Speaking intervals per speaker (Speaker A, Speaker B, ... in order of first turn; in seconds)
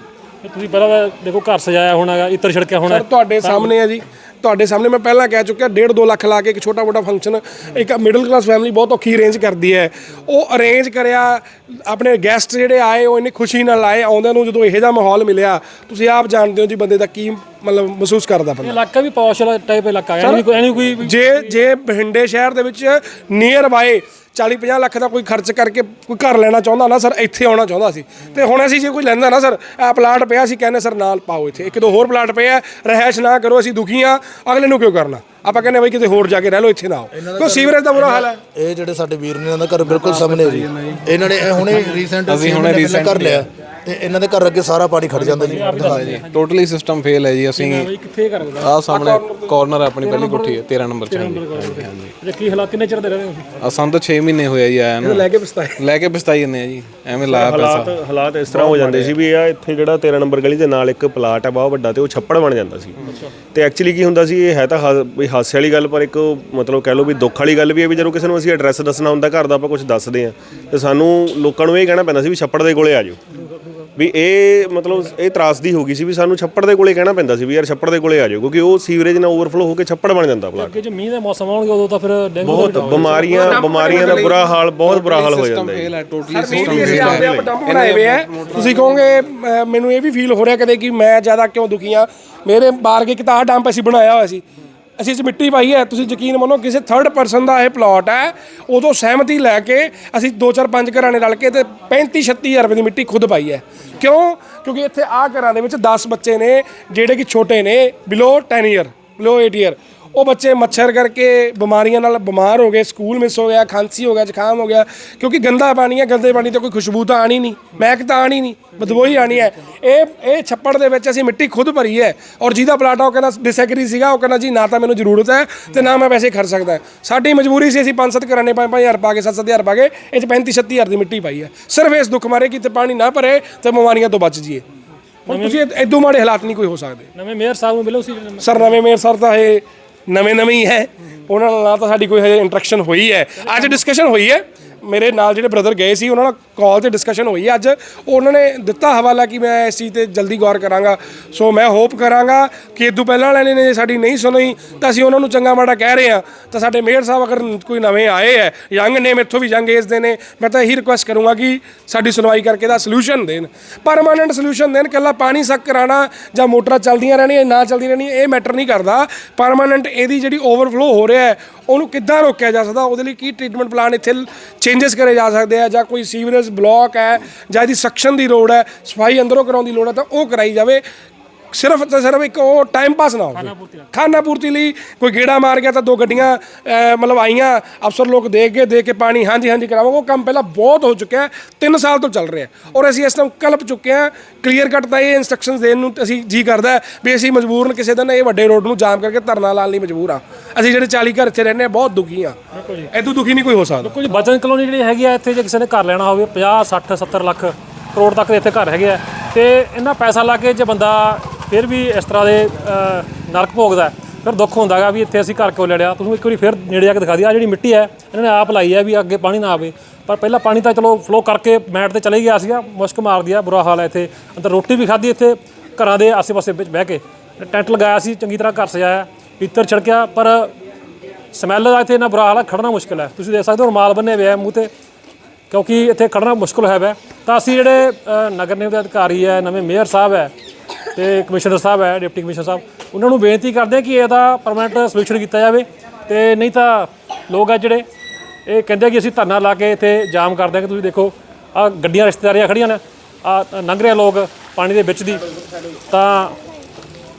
Speaker A: 0.4-3.7, 18.6-21.2, 45.4-46.4, 47.6-48.7, 50.0-53.5, 80.5-83.7, 135.3-135.6, 137.1-138.7, 183.3-183.9, 202.5-202.9, 203.8-230.5, 231.3-234.7, 235.5-240.3, 240.9-247.8, 248.5-255.2, 255.9-256.4
Speaker B: 2.9-18.8, 21.0-38.4, 48.9-49.6, 55.0-55.8, 82.9-84.5, 86.3-94.4, 95.0-134.6, 135.2-137.1, 138.4-180.8, 181.5-202.3, 202.9-203.9
Speaker C: 37.1-46.1
Speaker D: 39.8-43.4, 45.2-47.9, 48.5-52.1, 53.6-59.2, 83.9-89.0
Speaker E: 57.3-63.0, 63.5-73.2, 74.0-80.8, 82.4-85.9, 86.5-87.5